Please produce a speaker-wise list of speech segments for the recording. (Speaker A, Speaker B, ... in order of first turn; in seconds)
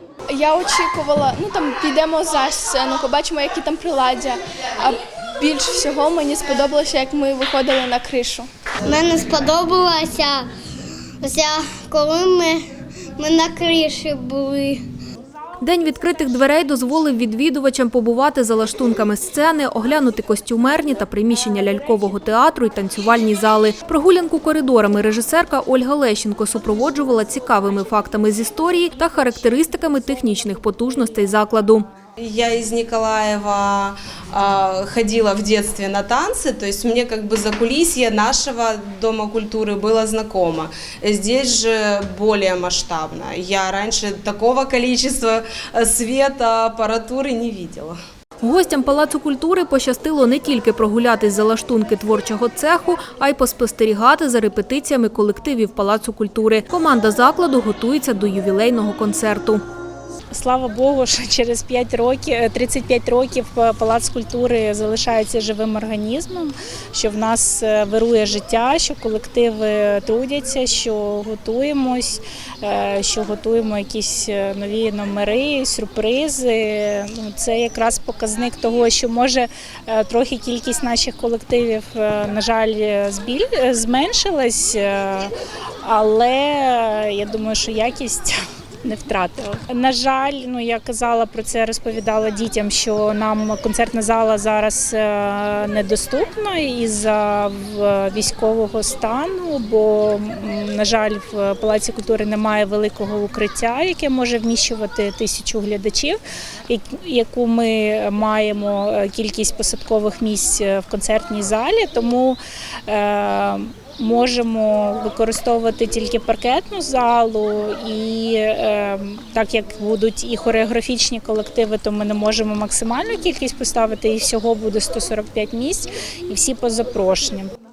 Speaker A: 0.3-8.5
Speaker B: 8.9-10.4, 11.2-12.6, 13.2-14.8
Speaker C: 15.6-31.9, 48.4-59.6
Speaker D: 32.2-48.0
Speaker E: 60.3-127.5